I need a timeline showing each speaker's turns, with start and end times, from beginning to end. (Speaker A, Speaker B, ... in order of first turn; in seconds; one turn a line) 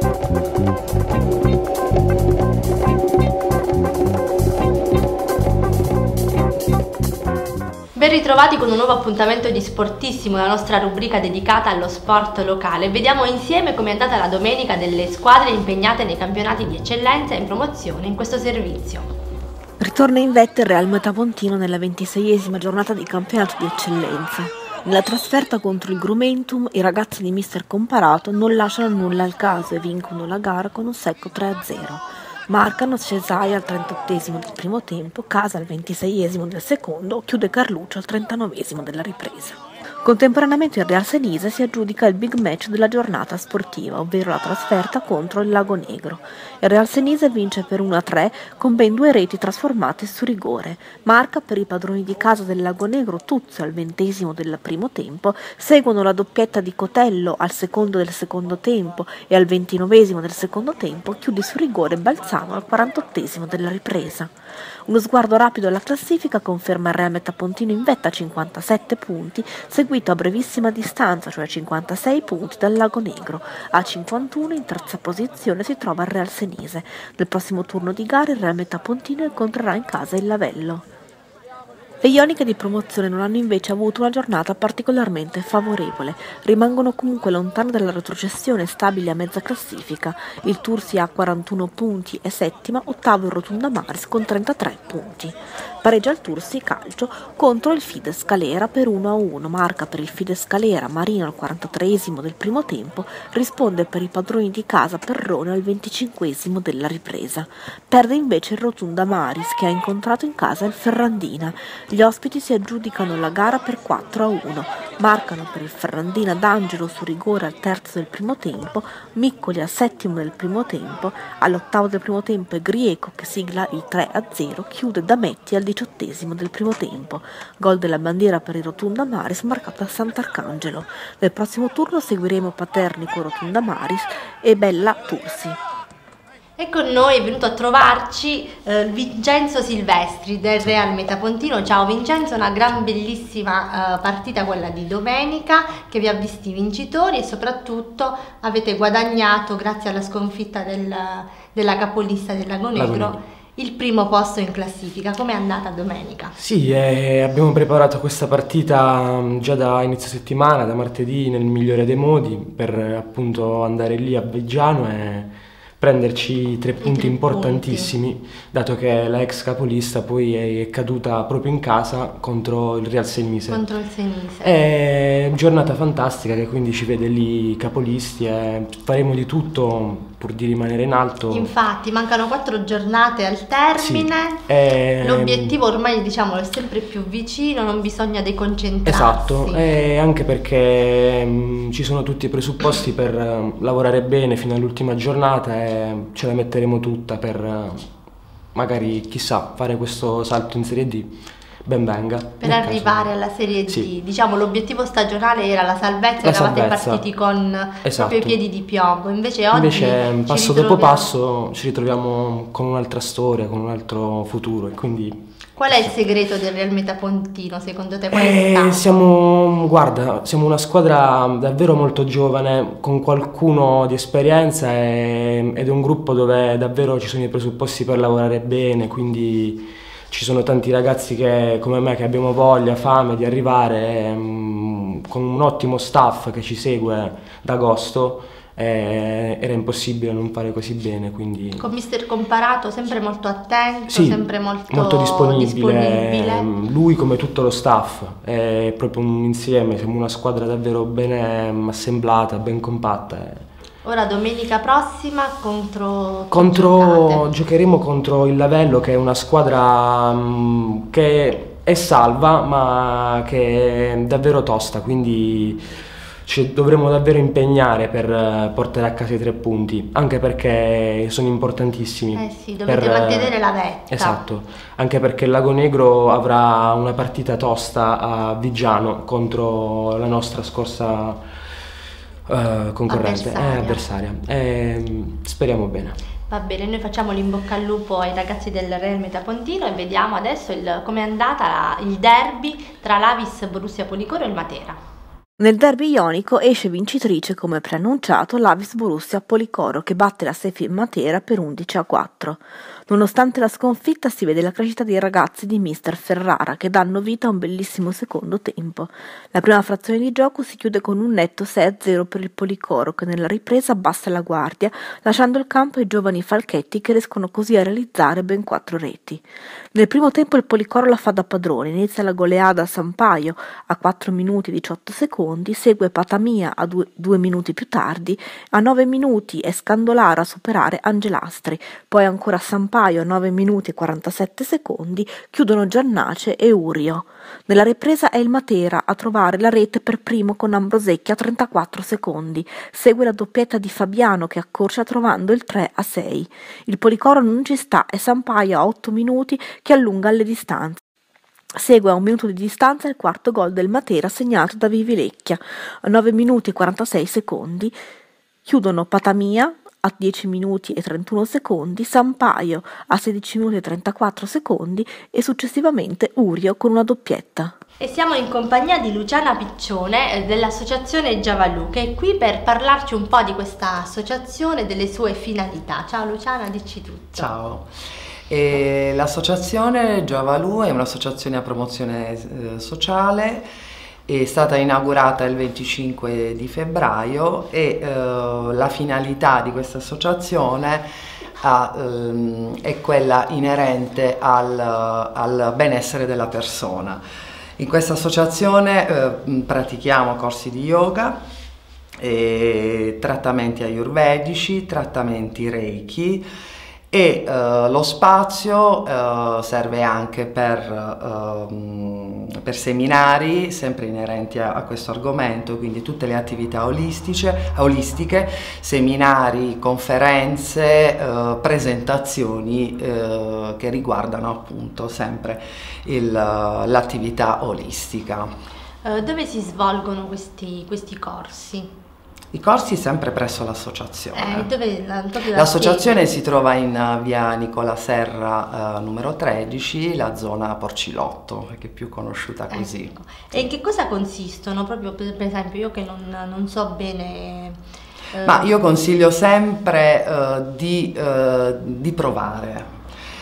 Speaker A: 7.9-19.1
Speaker B: 19.8-64.3
Speaker B: 64.9-80.8
Speaker B: 82.0-135.6
Speaker A: 136.6-156.3
Speaker C: 152.8-153.2
Speaker C: 156.4-173.6
Speaker A: 166.8-167.9
Speaker A: 173.5-174.6
Speaker C: 174.4-181.5
Speaker A: 181.3-184.4
Speaker C: 183.8-185.6
Speaker A: 185.0-189.6
Speaker C: 188.8-197.9
Speaker C: 198.5-203.1
Speaker A: 202.4-211.1
Speaker C: 206.2-207.0
Speaker C: 207.8-208.4
Speaker C: 209.5-215.9
Speaker A: 215.6-218.9
Speaker C: 218.1-241.7
Speaker A: 241.6-246.4
Speaker C: 243.9-253.4
Speaker A: 253.8-257.2
Speaker C: 256.3-265.6
Speaker C: 266.2-273.3
Speaker A: 272.1-274.2
Speaker C: 273.9-281.2
Speaker C: 282.3-285.9
Speaker A: 282.9-283.8
Speaker A: 286.3-294.8
Speaker B: 295.4-350.8
Speaker B: 351.5-357.8
Speaker B: 358.4-367.6
Speaker A: 367.8-377.3
Speaker D: 377.1-377.7
Speaker D: 378.3-383.5
Speaker D: 384.1-390.8
Speaker D: 391.4-397.0
Speaker D: 397.6-401.2
Speaker D: 402.0-406.2
Speaker D: 406.9-428.3
Speaker A: 428.8-431.7
Speaker D: 432.3-434.5
Speaker A: 434.1-436.0
Speaker D: 435.3-443.4
Speaker A: 442.5-447.6
Speaker A: 448.1-448.5
Speaker D: 448.2-452.7